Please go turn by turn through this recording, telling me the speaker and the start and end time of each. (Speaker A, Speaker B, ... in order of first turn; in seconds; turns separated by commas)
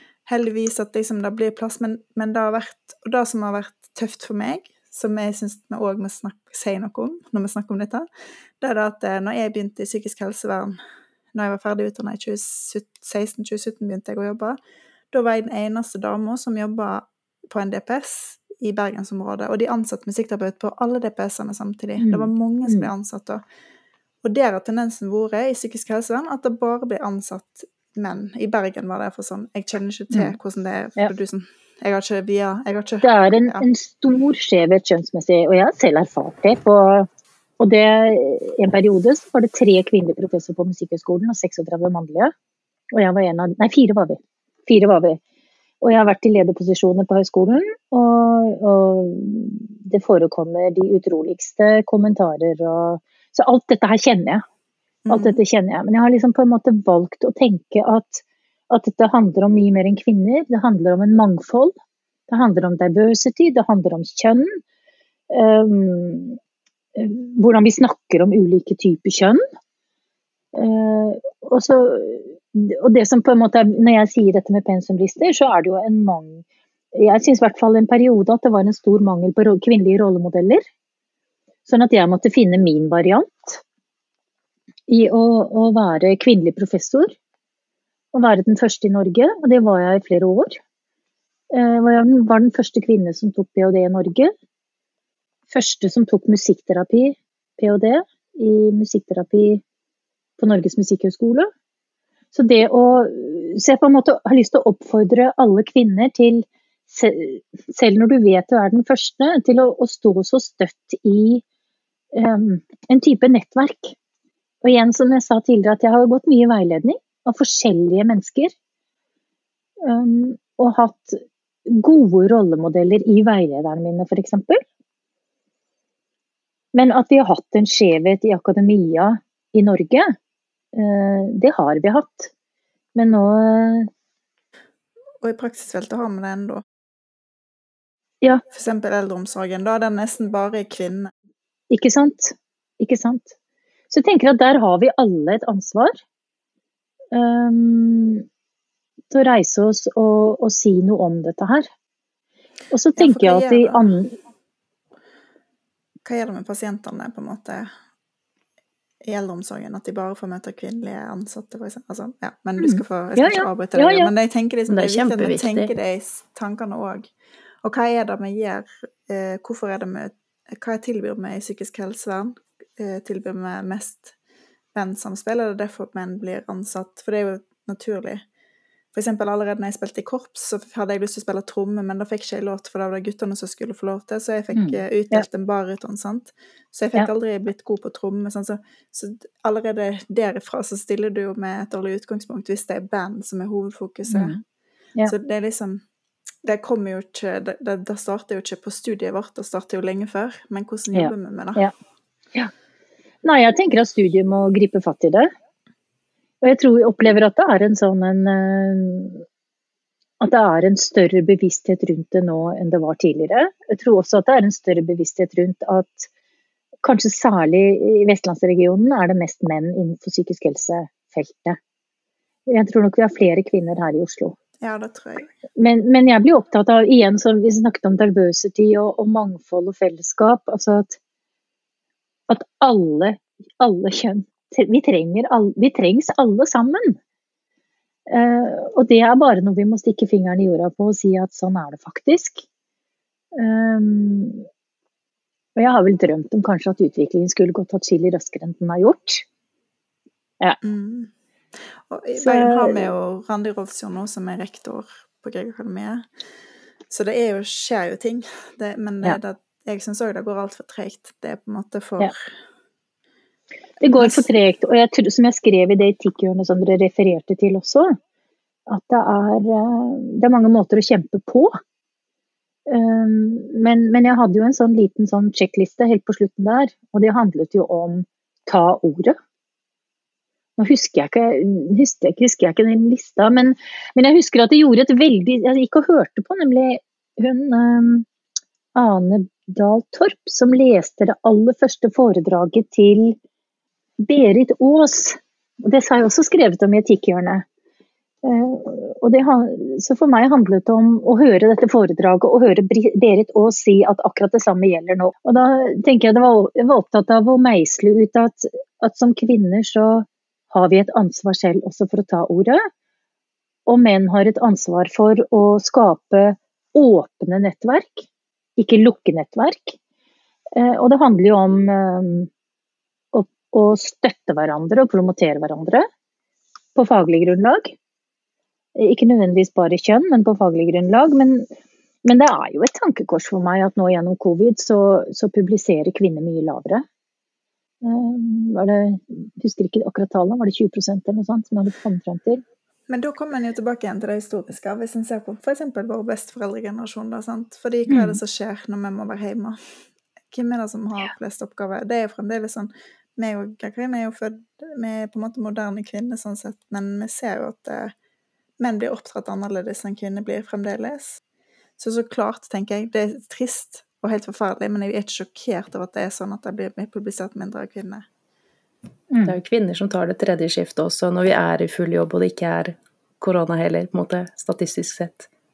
Speaker A: 0.3-8.1, Speaker A: 8.6-10.8, Speaker A: 11.3-14.6, Speaker A: 15.1-23.4, Speaker B: 22.0-22.9, Speaker A: 24.2-33.7, Speaker B: 33.0-37.1, Speaker B: 37.6-42.3, Speaker B: 42.9-45.2, Speaker B: 45.8-54.4, Speaker A: 55.0-55.4, Speaker B: 55.1-61.7, Speaker B: 62.3-64.6, Speaker B: 65.3-66.4, Speaker B: 67.0-69.4, Speaker B: 70.5-76.4, Speaker B: 77.0-80.7, Speaker B: 81.7-83.6, Speaker B: 84.9-87.2, Speaker B: 88.1-90.6, Speaker B: 91.5-94.3, Speaker B: 95.5-99.6, Speaker B: 100.4-101.5, Speaker B: 102.3-111.4, Speaker B: 112.1-114.0, Speaker B: 114.6-118.5, Speaker B: 119.8-124.6, Speaker B: 126.7-130.1, Speaker B: 130.7-132.3, Speaker B: 132.9-133.9, Speaker A: 135.2-136.6, Speaker A: 138.5-141.1, Speaker B: 141.7-143.3, Speaker B: 143.9-146.0, Speaker B: 147.1-148.2, Speaker B: 149.1-151.7, Speaker B: 152.7-154.2, Speaker A: 153.0-153.8, Speaker A: 156.1-157.7, Speaker A: 159.0-167.1, Speaker B: 162.6-164.1, Speaker C: 164.7-165.7, Speaker A: 167.6-174.1, Speaker A: 174.7-178.2, Speaker A: 178.9-194.4, Speaker B: 184.5-185.3, Speaker B: 194.1-194.4, Speaker A: 195.1-195.8, Speaker A: 196.4-201.7, Speaker B: 200.9-201.7, Speaker B: 203.2-205.3, Speaker B: 206.4-209.2, Speaker B: 210.2-216.1, Speaker B: 216.8-221.6, Speaker B: 222.5-224.4, Speaker A: 224.6-225.3, Speaker B: 225.6-231.0, Speaker B: 232.3-237.0, Speaker B: 238.1-242.5, Speaker B: 243.3-244.5, Speaker B: 245.6-249.3, Speaker A: 250.6-251.1, Speaker A: 251.9-256.1, Speaker B: 252.2-252.9, Speaker A: 256.9-262.2, Speaker B: 263.8-268.0, Speaker A: 263.9-264.3, Speaker B: 268.7-271.6, Speaker B: 272.7-279.2, Speaker B: 280.6-288.1, Speaker B: 288.8-293.2, Speaker B: 294.0-297.4, Speaker B: 298.2-312.6, Speaker B: 313.7-319.8, Speaker B: 320.6-322.3, Speaker B: 323.1-325.9, Speaker B: 326.8-327.8, Speaker B: 328.8-331.5, Speaker B: 332.0-336.8, Speaker B: 337.8-342.4, Speaker A: 342.9-349.6, Speaker B: 347.9-348.2, Speaker A: 350.3-357.9, Speaker A: 358.6-361.2, Speaker A: 361.8-368.1, Speaker B: 369.1-369.4, Speaker C: 369.2-375.3